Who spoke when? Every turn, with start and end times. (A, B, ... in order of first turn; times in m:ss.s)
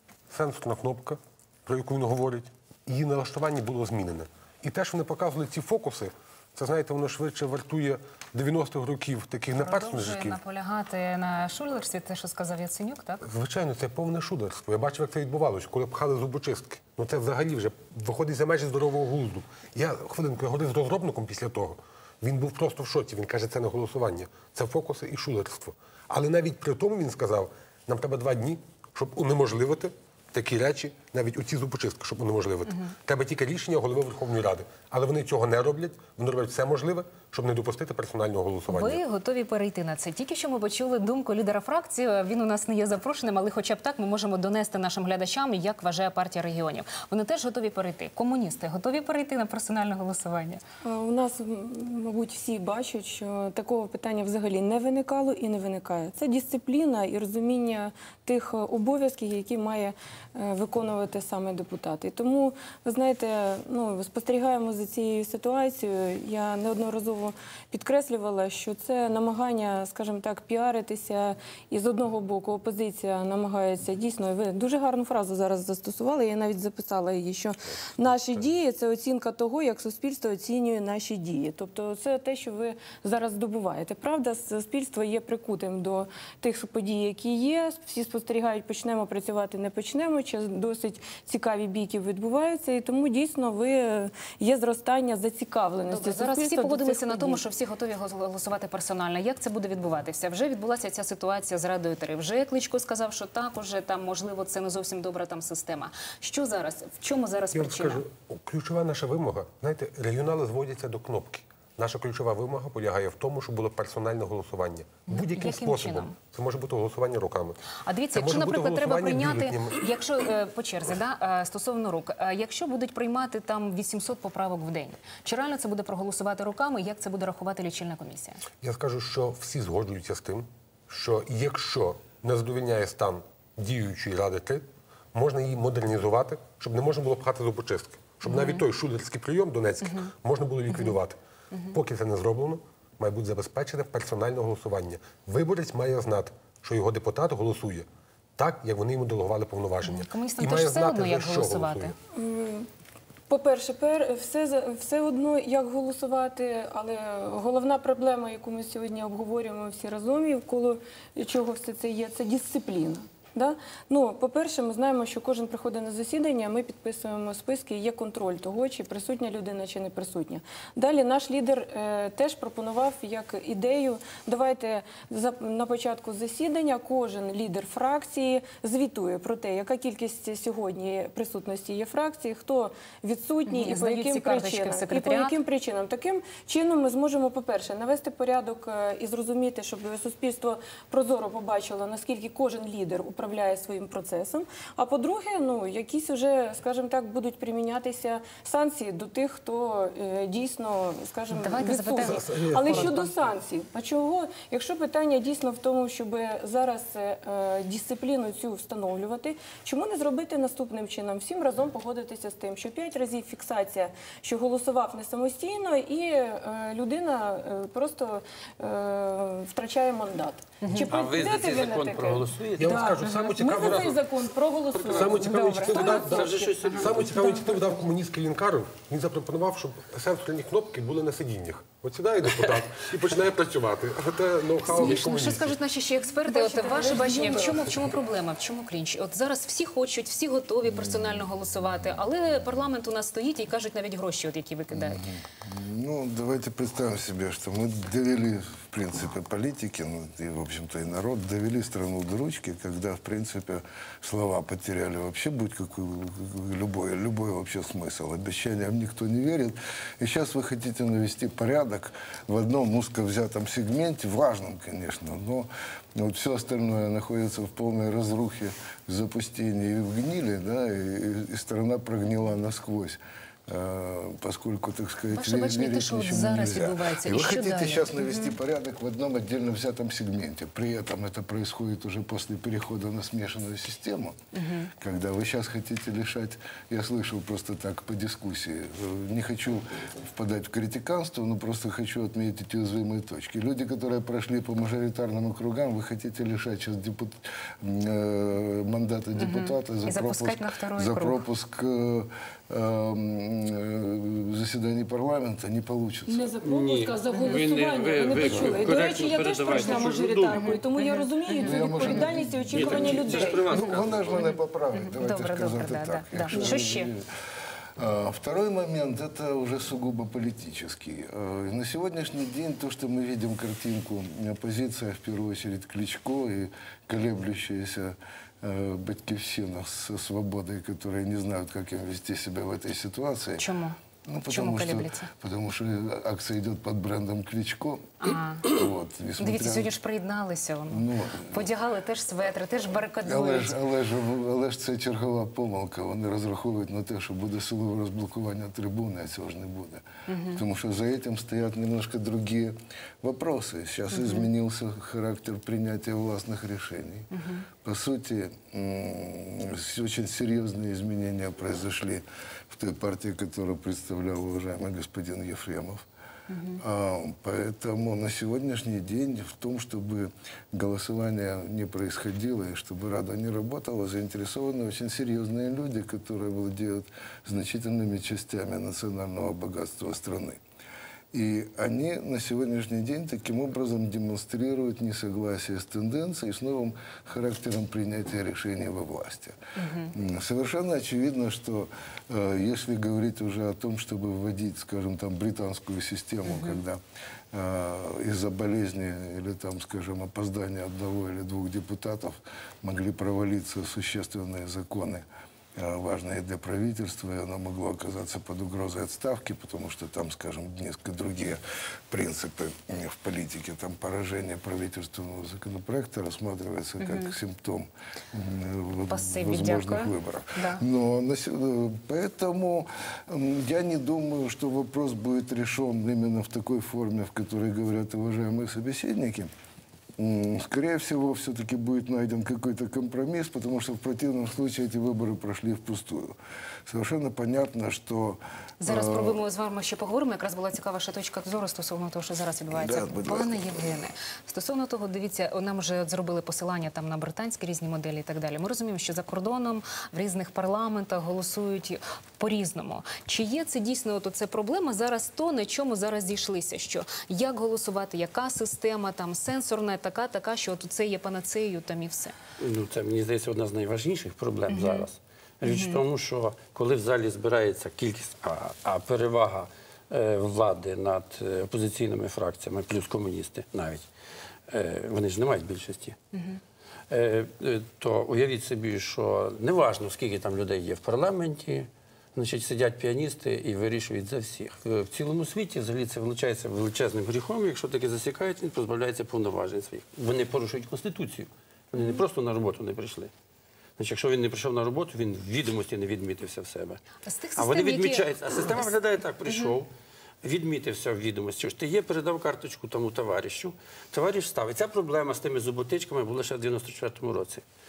0:00.3-0:10.4 A
0:09.5-0:13.2 B
0:13.2-0:39.0 A
0:38.7-0:50.6 B
0:50.8-1:37.4 C
1:35.9-1:48.0 B
1:47.5-1:57.6 A
1:55.1-1:56.1 B
1:57.8-2:08.4 B
1:58.1-1:59.8 A
2:08.6-2:21.2 A
2:18.2-2:18.6 B
2:20.7-2:21.0 B
2:21.7-2:31.9 A
2:29.8-2:31.9 B
2:32.1-2:32.7 C
2:33.3-3:47.5 C
3:03.5-3:05.3 B
3:21.3-3:23.1 B
3:22.0-3:23.0 A
3:40.6-3:40.9 B
3:40.9-3:42.9 D
3:42.6-3:44.0 A
3:43.0-3:43.3 B
3:44.8-3:55.6 A
3:44.9-3:47.4 D
3:54.6-4:05.0 B
3:56.2-3:57.9 C
4:00.7-4:01.2 E
4:04.7-4:44.2 E
4:35.1-4:38.3 B
4:44.3-4:44.7 B
4:44.8-5:06.2 E
4:59.2-5:01.2 B
5:06.1-5:13.5 C
5:06.4-5:10.5 D
5:07.1-5:07.4 B
5:08.3-5:08.5 E
5:10.3-5:11.6 B
5:11.4-5:17.1 E
5:12.5-5:14.3 D
5:13.6-5:16.9 B
5:17.8-5:33.4 E
5:33.4-5:35.1 B
5:34.0-5:39.7 E
5:38.0-5:38.5 B
5:39.2-5:43.6 B
5:40.7-5:41.5 E
5:43.0-5:57.1 E
5:50.1-5:50.4 B
5:53.9-5:54.3 B
5:57.1-5:57.4 B
5:57.6-6:05.8 E
6:06.3-6:06.6 B
6:06.6-6:20.4 E
6:21.1-6:29.4 E
6:29.6-6:29.9 B
6:29.9-6:36.8 E
6:36.3-6:36.6 B
6:37.3-7:09.3 E
6:56.8-6:57.1 B
6:58.9-7:00.6 B
7:10.0-7:19.2 E
7:18.6-7:42.1 B
7:22.5-7:23.8 E
7:42.4-7:53.8 D
7:44.5-7:44.8 B
7:45.4-7:45.8 B
7:54.5-7:56.0 D
7:56.9-8:13.1 D
8:13.8-8:16.8 D
8:17.0-8:18.7 B
8:17.4-8:19.7 D
8:20.2-8:27.4 D